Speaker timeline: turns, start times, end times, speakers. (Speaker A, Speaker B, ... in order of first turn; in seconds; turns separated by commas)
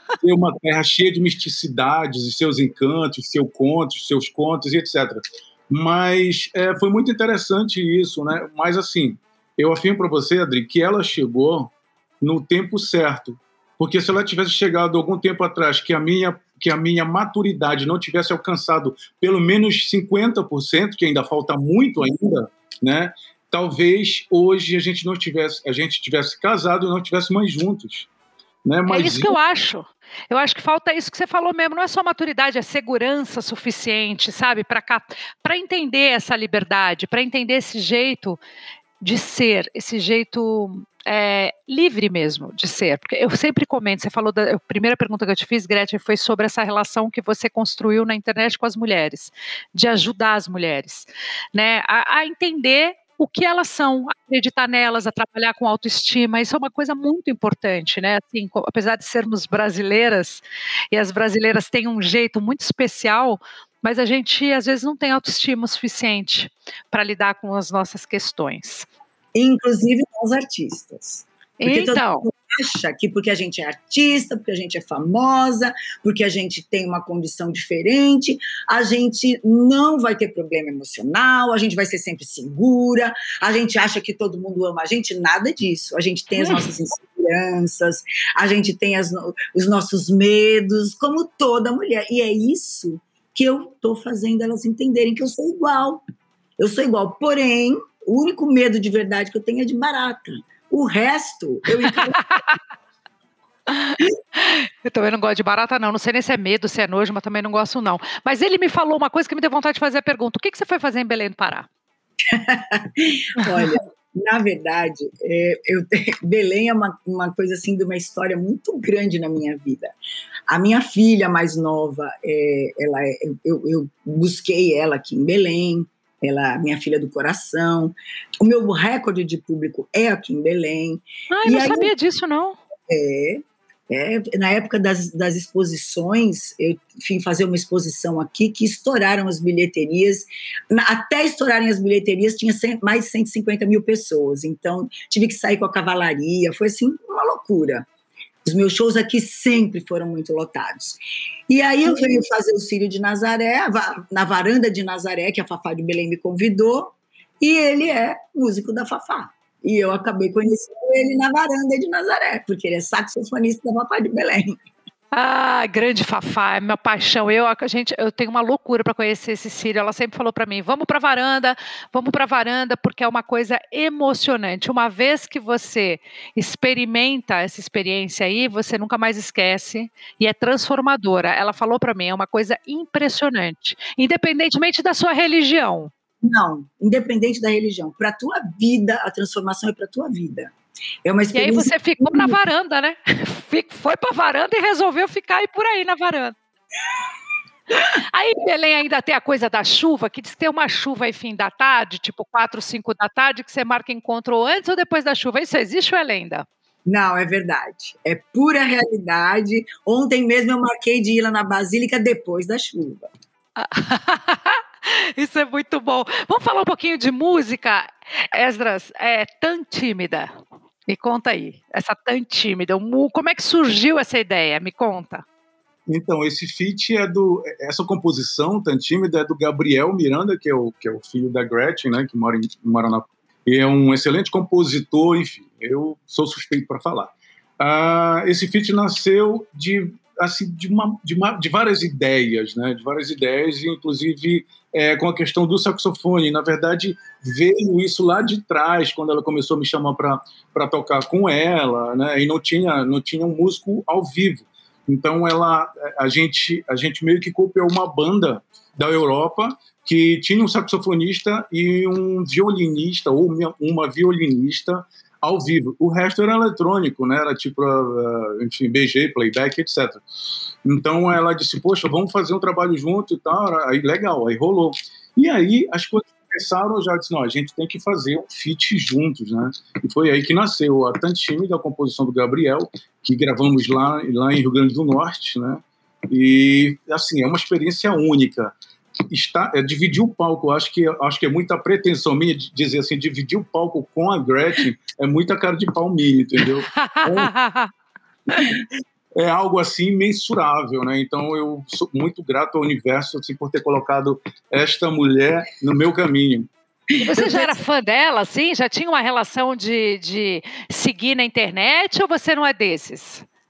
Speaker A: 0.2-28.1, Speaker A: 28.6-29.4, Speaker B: 28.9-38.4, Speaker B: 39.0-68.9, Speaker C: 69.3-96.0, Speaker B: 71.6-72.3, Speaker B: 86.4-86.7, Speaker C: 96.6-102.2, Speaker B: 101.8-102.5, Speaker B: 103.7-111.7, Speaker C: 112.2-119.9, Speaker C: 120.5-131.9, Speaker B: 131.3-132.6, Speaker C: 132.9-147.9, Speaker C: 148.4-164.6, Speaker B: 165.1-185.9, Speaker C: 186.2-190.5, Speaker C: 191.0-192.4, Speaker B: 191.3-196.4, Speaker B: 197.8-206.5, Speaker C: 206.9-213.1, Speaker B: 213.6-220.3, Speaker B: 220.9-225.2, Speaker A: 225.9-270.0, Speaker A: 270.6-288.5, Speaker A: 289.1-297.3, Speaker B: 296.7-297.7, Speaker A: 299.1-306.5, Speaker C: 306.9-307.5, Speaker B: 307.0-313.2